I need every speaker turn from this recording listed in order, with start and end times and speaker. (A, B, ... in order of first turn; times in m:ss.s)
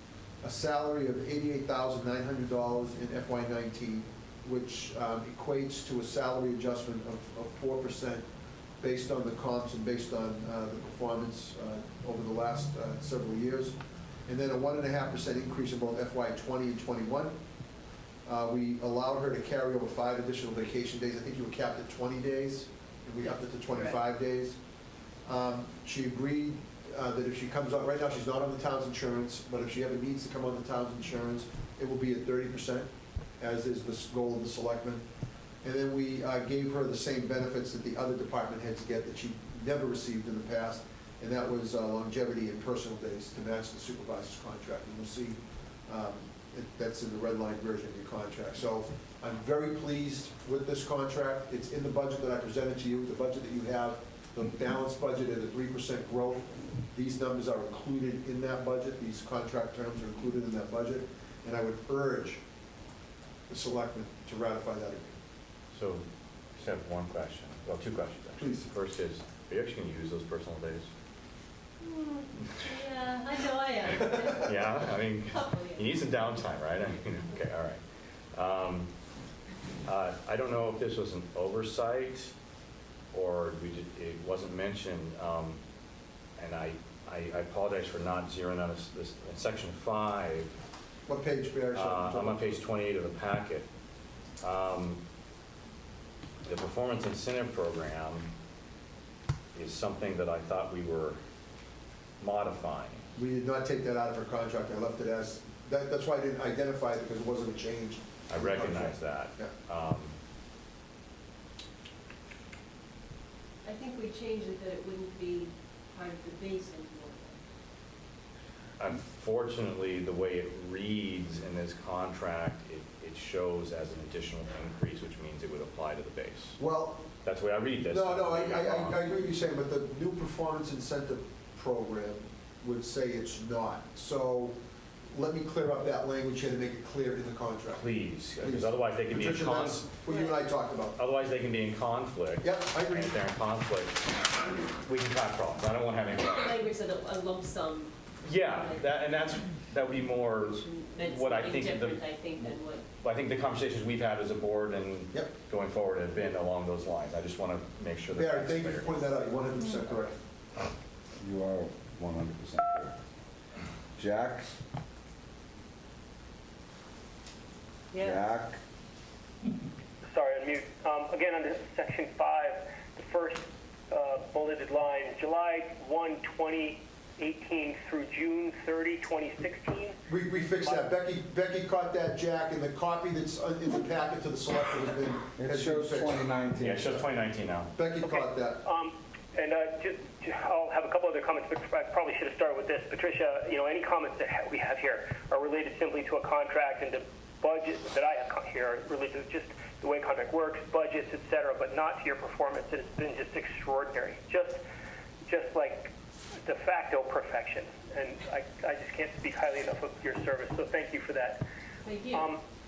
0:00.4-0:08.2 A
0:08.8-0:13.8 A
0:14.3-0:17.4 A
0:18.2-0:24.6 A
0:25.2-0:32.9 A
0:33.4-0:35.0 A
0:35.6-1:02.4 A
1:03.5-1:05.2 A
1:05.7-1:06.0 B
1:06.6-1:10.9 B
1:08.4-1:08.7 A
1:11.8-1:16.3 C
1:13.8-1:17.8 B
1:18.3-1:18.9 B
1:19.8-1:22.3 B
1:23.1-1:25.6 B
1:26.4-1:30.5 B
1:31.1-1:32.6 A
1:31.7-1:33.6 B
1:34.4-1:35.0 B
1:36.4-1:38.3 B
1:39.5-1:41.2 B
1:42.2-1:43.0 B
1:43.2-1:49.5 A
1:48.3-1:50.1 B
1:53.6-1:57.4 C
1:58.8-2:06.6 B
2:06.6-2:07.0 A
2:07.2-2:09.0 B
2:07.9-2:14.6 A
2:15.1-2:21.0 A
2:17.7-2:19.9 B
2:20.9-2:26.6 B
2:22.4-2:23.1 A
2:26.4-2:27.9 C
2:28.2-2:32.0 B
2:28.6-2:29.2 C
2:30.6-2:32.8 C
2:33.0-2:39.0 B
2:38.1-2:40.2 A
2:41.2-2:42.9 D
2:44.0-2:44.6 D
2:48.0-2:48.6 D
2:50.0-3:00.0 E
3:00.1-3:06.3 A
3:00.6-3:00.9 E
3:05.4-3:06.9 D
3:06.6-3:07.7 B
3:07.7-3:08.6 A
3:08.0-3:24.6 E
3:25.2-3:25.9 E
3:26.4-3:31.4 E
3:31.8-3:32.2 C
3:32.1-3:32.4 E